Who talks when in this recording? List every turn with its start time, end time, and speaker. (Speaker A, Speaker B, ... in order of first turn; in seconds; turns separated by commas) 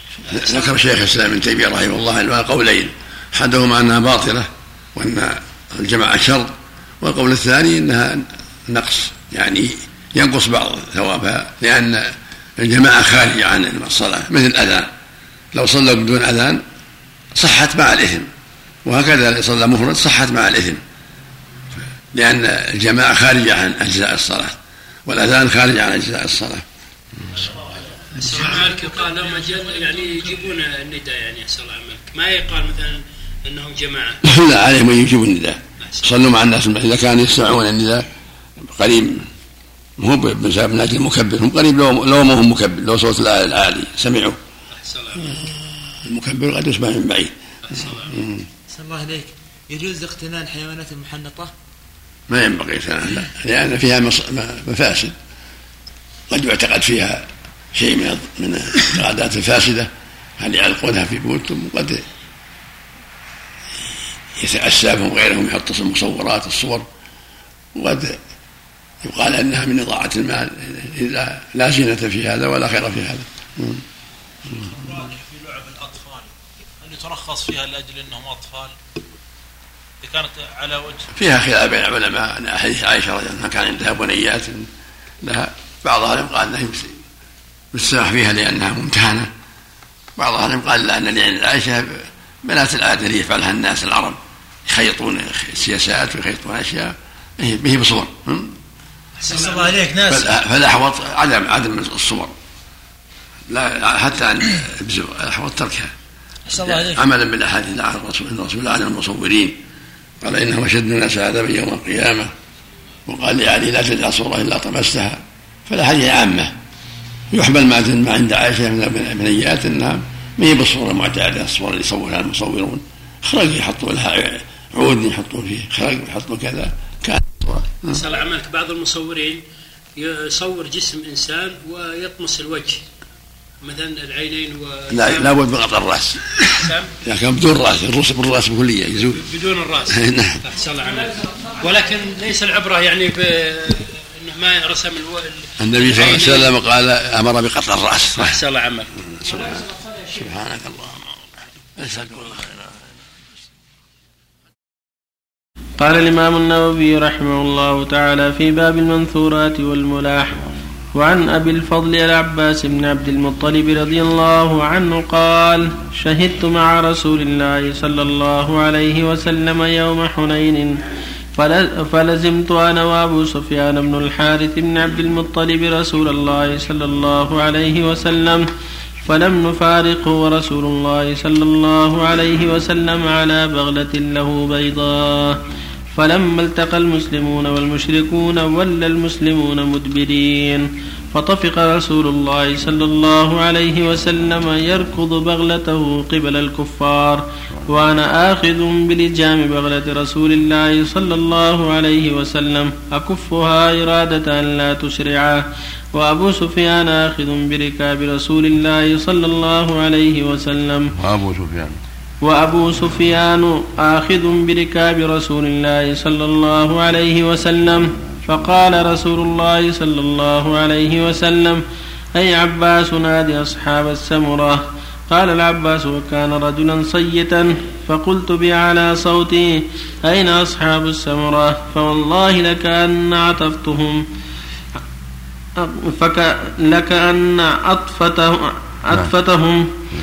Speaker A: 0.2-14.9, Speaker A: 15.5-16.6, Speaker A: 17.3-18.3, Speaker A: 18.8-20.8, Speaker A: 22.1-26.6, Speaker B: 28.1-34.2, Speaker C: 28.1-30.5, Speaker A: 34.2-38.0, Speaker B: 35.8-36.2, Speaker A: 38.7-39.2, Speaker A: 40.0-44.4, Speaker B: 44.8-45.4, Speaker A: 45.2-47.3, Speaker B: 47.6-48.1, Speaker A: 48.1-48.5, Speaker D: 48.7-51.5, Speaker A: 52.3-55.1, Speaker A: 56.3-62.0, Speaker A: 64.3-66.9, Speaker A: 67.7-68.2, Speaker A: 69.0-73.8, Speaker C: 74.5-76.3, Speaker C: 76.8-78.7, Speaker C: 80.0-81.1, Speaker A: 81.1-84.7, Speaker A: 85.2-87.0, Speaker A: 87.7-89.3, Speaker A: 90.2-98.5, Speaker C: 99.2-100.0, Speaker A: 100.1-102.3, Speaker A: 103.5-105.9, Speaker A: 106.6-109.6, Speaker A: 110.2-112.3, Speaker A: 113.0-116.5, Speaker A: 117.3-128.0, Speaker B: 127.9-129.4, Speaker B: 129.9-132.8, Speaker B: 133.6-135.4, Speaker A: 134.9-139.2, Speaker B: 136.5-136.9, Speaker B: 139.1-146.5, Speaker A: 139.9-140.4, Speaker A: 145.6-148.4, Speaker B: 148.2-148.9, Speaker A: 149.2-151.0, Speaker A: 151.8-152.6, Speaker E: 155.8-160.4, Speaker E: 160.9-170.8, Speaker E: 171.4-178.4, Speaker E: 179.0-185.4, Speaker E: 185.9-205.4, Speaker E: 205.9-210.9, Speaker A: 211.0-211.7, Speaker E: 212.2-221.6, Speaker E: 222.1-234.0, Speaker E: 235.6-239.7